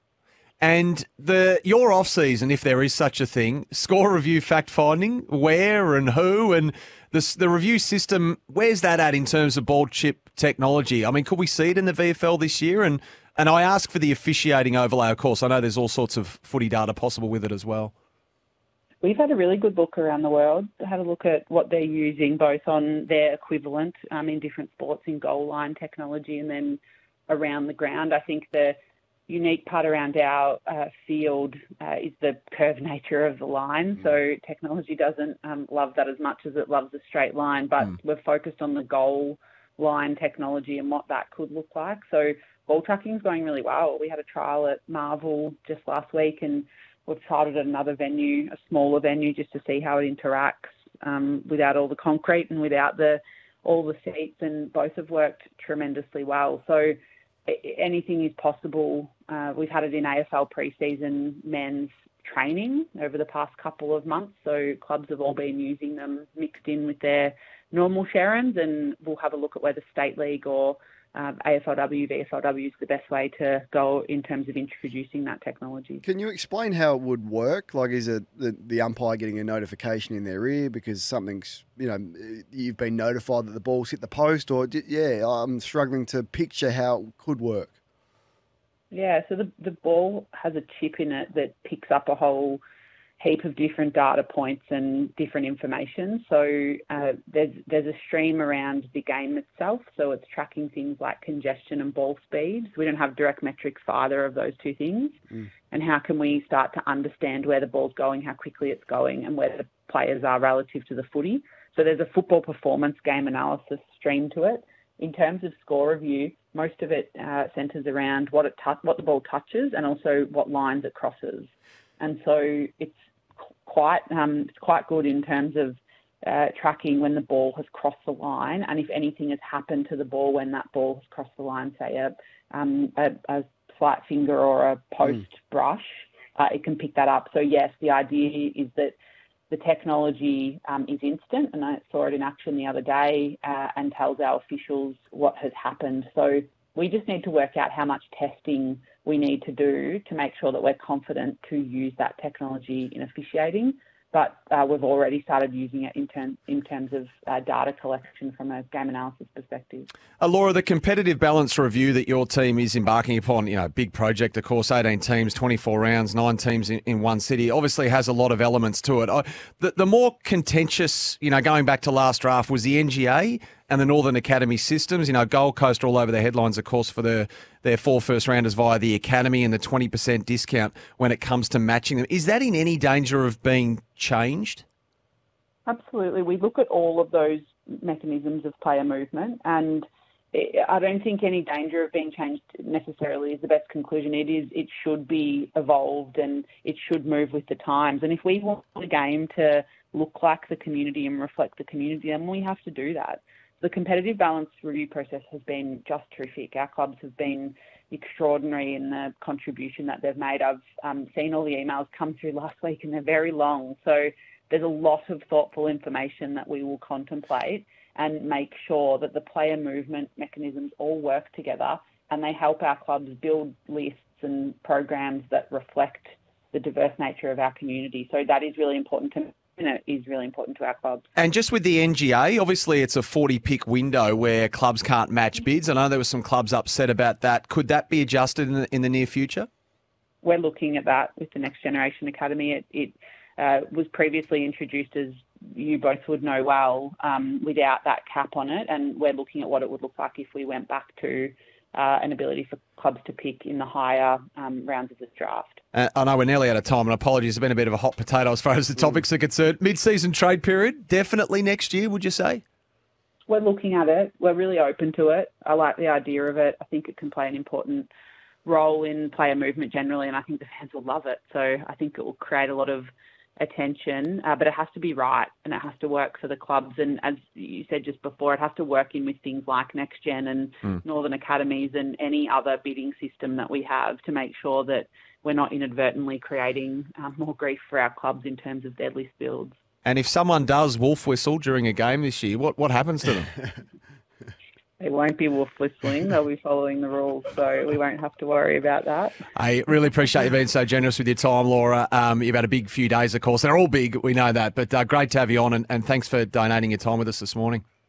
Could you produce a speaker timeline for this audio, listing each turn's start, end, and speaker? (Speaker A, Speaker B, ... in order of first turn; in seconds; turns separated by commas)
Speaker A: 0.6-17.9, Speaker B: 19.0-28.8, Speaker B: 29.3-76.0, Speaker C: 76.0-87.7, Speaker B: 88.9-92.6, Speaker B: 93.2-105.2, Speaker B: 105.7-123.0, Speaker B: 123.6-139.0, Speaker B: 139.5-159.9, Speaker A: 160.2-184.6, Speaker B: 185.7-231.1, Speaker A: 231.2-239.5, Speaker B: 240.2-255.6, Speaker A: 255.7-262.4, Speaker B: 263.3-267.9, Speaker B: 268.4-289.6, Speaker A: 289.9-293.3, Speaker B: 294.8-299.2, Speaker A: 299.3-307.6